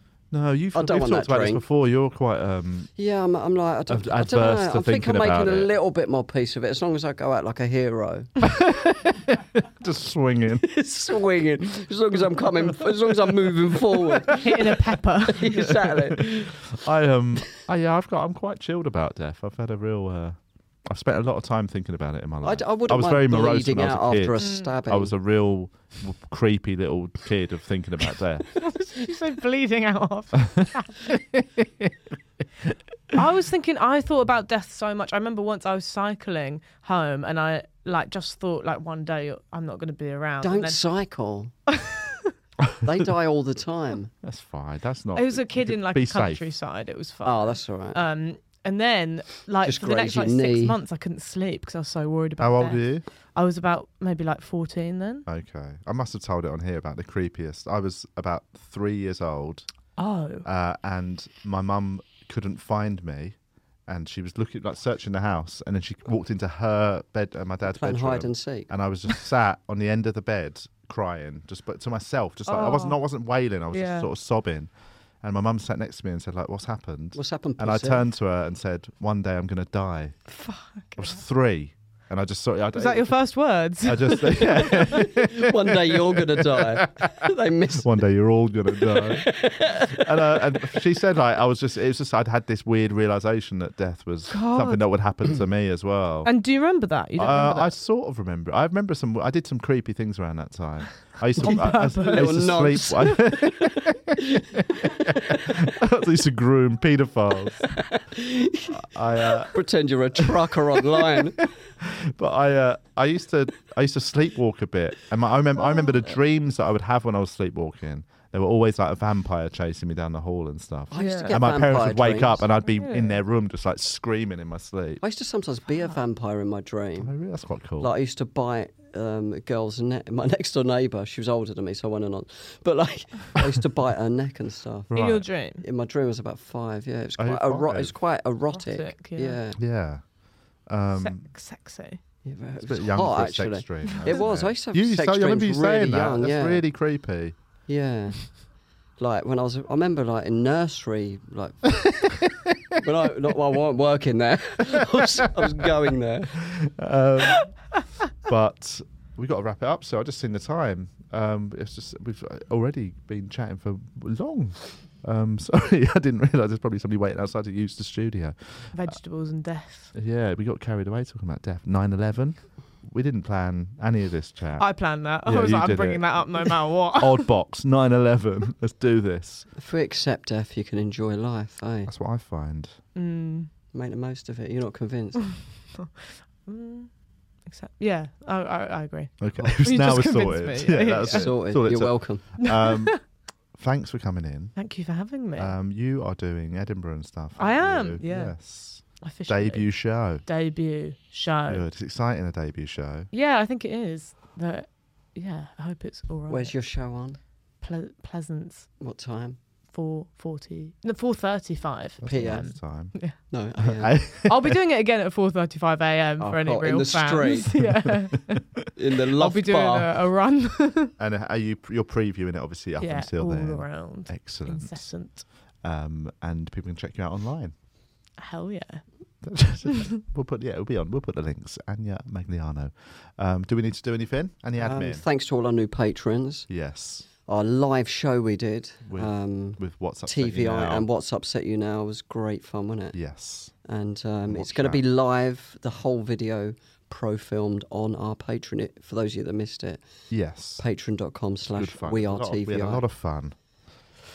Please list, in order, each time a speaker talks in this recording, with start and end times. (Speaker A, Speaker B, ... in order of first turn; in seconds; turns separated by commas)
Speaker A: 0.3-2.9, Speaker B: 0.7-1.6, Speaker B: 3.0-8.3, Speaker A: 3.9-5.7, Speaker A: 8.5-10.7, Speaker B: 10.6-14.7, Speaker C: 14.4-15.7, Speaker B: 15.3-16.6, Speaker A: 15.6-28.5, Speaker B: 22.4-25.1, Speaker C: 24.4-24.8, Speaker C: 28.6-31.0, Speaker A: 30.6-31.9, Speaker C: 33.1-40.8, Speaker B: 40.4-41.5, Speaker C: 41.7-42.3, Speaker B: 42.8-44.1, Speaker A: 44.2-46.4, Speaker C: 45.1-55.3, Speaker B: 47.2-48.0, Speaker B: 49.6-50.8, Speaker A: 52.4-53.0, Speaker A: 55.3-59.7, Speaker C: 60.0-60.5, Speaker A: 60.5-80.2, Speaker B: 67.7-68.7, Speaker C: 72.5-73.0, Speaker C: 73.7-74.1, Speaker B: 77.2-78.0, Speaker C: 80.3-81.2, Speaker A: 81.0-96.3, Speaker C: 82.8-84.9, Speaker B: 84.7-88.0, Speaker B: 88.8-90.6, Speaker C: 94.3-94.8, Speaker C: 96.2-97.7, Speaker A: 97.2-107.7, Speaker C: 101.4-102.6, Speaker B: 101.4-103.4, Speaker B: 108.1-108.8, Speaker A: 108.7-109.5, Speaker B: 109.4-111.4, Speaker A: 110.8-125.0, Speaker B: 120.9-122.5, Speaker C: 120.9-121.4, Speaker C: 122.8-123.1, Speaker B: 125.0-127.1, Speaker A: 127.0-127.9, Speaker B: 127.8-135.0, Speaker A: 134.9-135.3, Speaker C: 134.9-135.6, Speaker B: 135.6-139.6, Speaker A: 137.2-137.9, Speaker C: 138.5-139.4, Speaker A: 139.6-140.0, Speaker A: 140.7-141.2, Speaker C: 141.0-142.0, Speaker B: 142.2-146.6, Speaker A: 142.6-147.3, Speaker B: 147.7-148.3, Speaker B: 149.0-152.1, Speaker A: 151.9-152.8, Speaker B: 152.8-156.4, Speaker A: 154.7-155.7, Speaker A: 156.4-157.5, Speaker A: 158.2-169.0, Speaker C: 168.7-169.9, Speaker A: 169.9-174.7, Speaker C: 174.6-177.3, Speaker A: 175.2-179.5, Speaker B: 179.6-181.9, Speaker A: 181.9-182.8, Speaker C: 182.9-183.5, Speaker B: 183.7-185.3, Speaker C: 185.2-186.9, Speaker C: 187.5-191.4, Speaker A: 189.2-193.0, Speaker B: 191.1-192.2, Speaker C: 192.4-193.0, Speaker A: 193.5-194.6, Speaker C: 194.6-195.6, Speaker A: 195.4-200.2, Speaker C: 197.4-201.6, Speaker A: 201.5-203.1, Speaker C: 203.1-206.5, Speaker B: 206.3-207.2, Speaker C: 207.6-208.7, Speaker B: 208.8-209.4, Speaker C: 209.7-213.2, Speaker A: 212.0-212.9, Speaker B: 212.1-212.5, Speaker B: 213.3-214.0, Speaker A: 213.6-214.6, Speaker C: 214.2-220.9, Speaker B: 216.2-217.5, Speaker B: 218.8-219.9, Speaker A: 221.0-227.5, Speaker C: 222.8-225.2, Speaker C: 228.2-228.9, Speaker A: 229.2-235.0, Speaker B: 234.6-236.5, Speaker A: 236.5-237.1, Speaker B: 237.2-242.9, Speaker A: 238.9-240.9, Speaker A: 242.9-243.5, Speaker B: 243.7-249.8, Speaker A: 244.3-244.8, Speaker A: 250.1-250.6, Speaker B: 250.6-252.8, Speaker A: 251.4-253.3